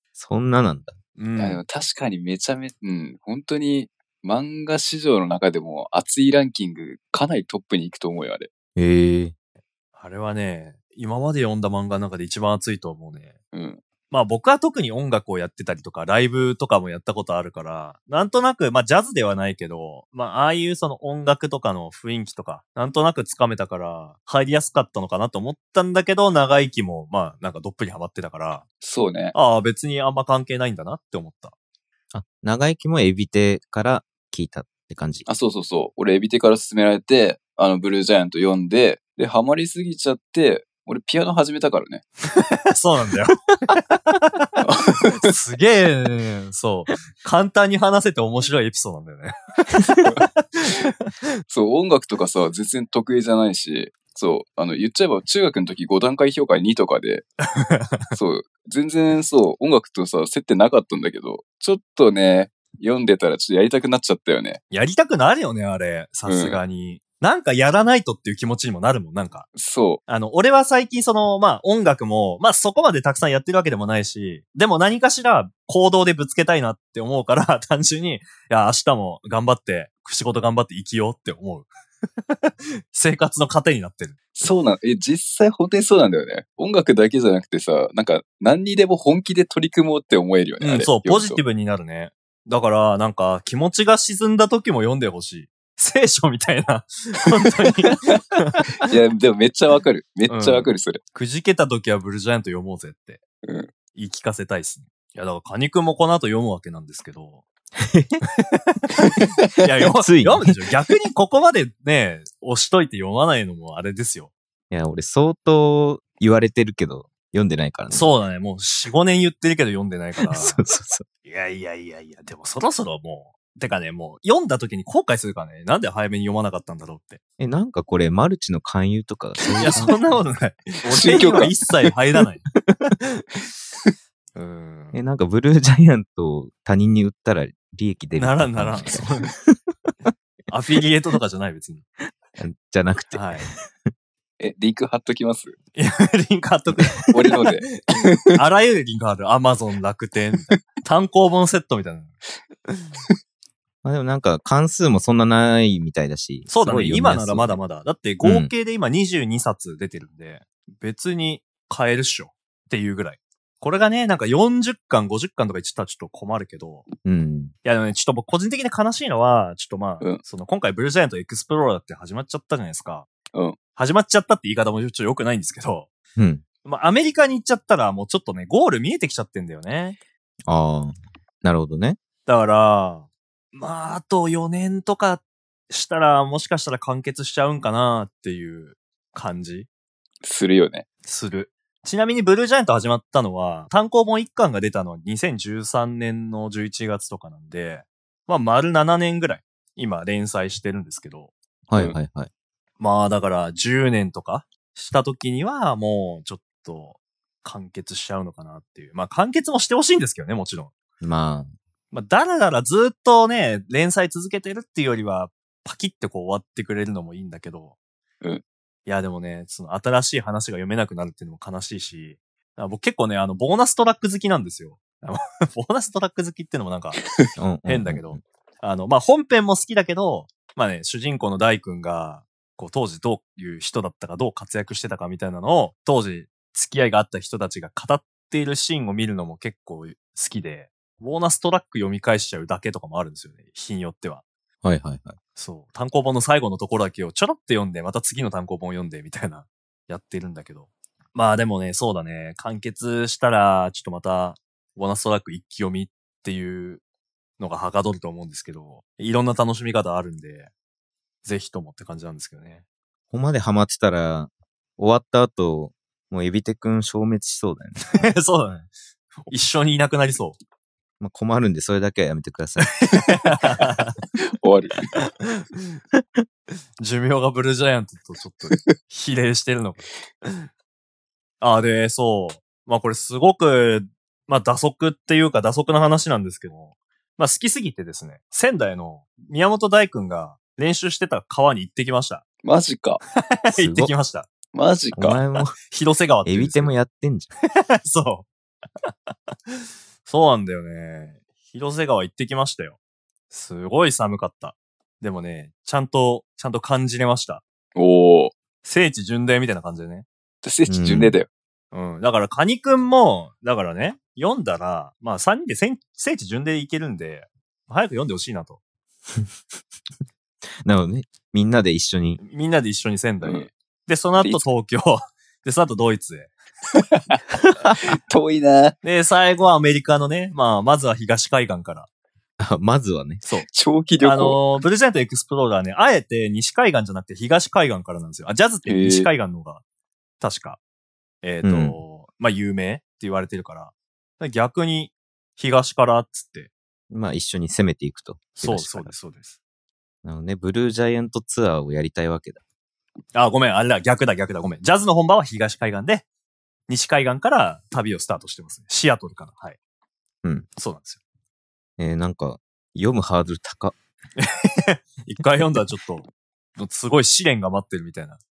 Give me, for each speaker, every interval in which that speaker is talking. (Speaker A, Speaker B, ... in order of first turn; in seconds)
Speaker A: 0.1-0.9, 8.8-9.3, 32.1-35.2, 107.8-108.2, 110.0-110.5, 114.7-118.1, 120.2-121.0, 127.4-130.2, 134.9-139.6, 142.3-143.7, 153.8-157.6, 158.2-158.5, 167.0-167.5, 176.2-176.4, 180.4-182.0, 201.7-202.3, 211.0-211.5, 227.4-228.2, 244.6-245.2, 263.1-268.0, 271.0-272.8, 293.5-293.9, 294.9-295.6, 296.2-297.3, 310.7-311.2, 320.6-322.2, 332.4-333.2, 341.4-341.8, 346.9-348.9, 350.0-352.4, 361.8-363.8
Speaker B: 1.2-1.6, 9.9-13.3, 14.1-28.6, 29.3-31.5, 42.7-43.4, 43.9-50.9, 57.5-58.0, 64.7-69.5, 70.1-81.7, 82.3-84.2, 90.6-98.6, 100.3-103.2, 103.9-107.4, 108.5-114.3, 117.9-120.6, 121.2-127.2, 129.6-132.4, 134.3-135.0, 138.2-139.3, 140.5-141.8, 143.1-143.5, 145.7-147.7, 148.3-152.1, 156.5-166.8, 167.6-173.1, 173.8-175.9, 176.6-180.0, 182.2-189.7, 191.0-201.3, 202.8-210.7, 211.9-217.7, 218.8-227.0, 227.7-244.2, 245.3-256.8, 257.4-260.5, 261.2-262.6, 267.9-268.7, 269.3-270.4, 272.8-274.0, 274.9-275.4, 276.8-280.4, 281.4-292.2, 293.3-294.3, 295.7-296.7, 297.8-298.3, 300.0-302.8, 303.3-307.4, 308.6-310.1, 311.7-318.6, 322.2-326.3, 328.8-331.9, 334.0-339.6, 340.2-340.6, 341.2-346.5, 348.4-349.4, 353.1-356.0, 356.7-359.6, 360.6-361.0, 364.2-368.2
Speaker C: 1.4-8.5, 13.5-13.8, 28.8-29.3, 35.2-42.0, 44.6-45.3, 51.5-57.2, 58.1-64.6, 66.3-66.6, 69.5-70.0, 84.4-91.4, 98.8-101.0, 103.4-103.7, 130.9-131.5, 144.4-145.6, 147.1-148.2, 190.2-190.8, 274.4-274.8, 292.4-293.0, 294.5-295.2, 307.8-308.3, 310.4-311.3, 323.2-323.5, 324.2-324.4, 327.9-328.8, 333.5-334.4, 338.6-339.1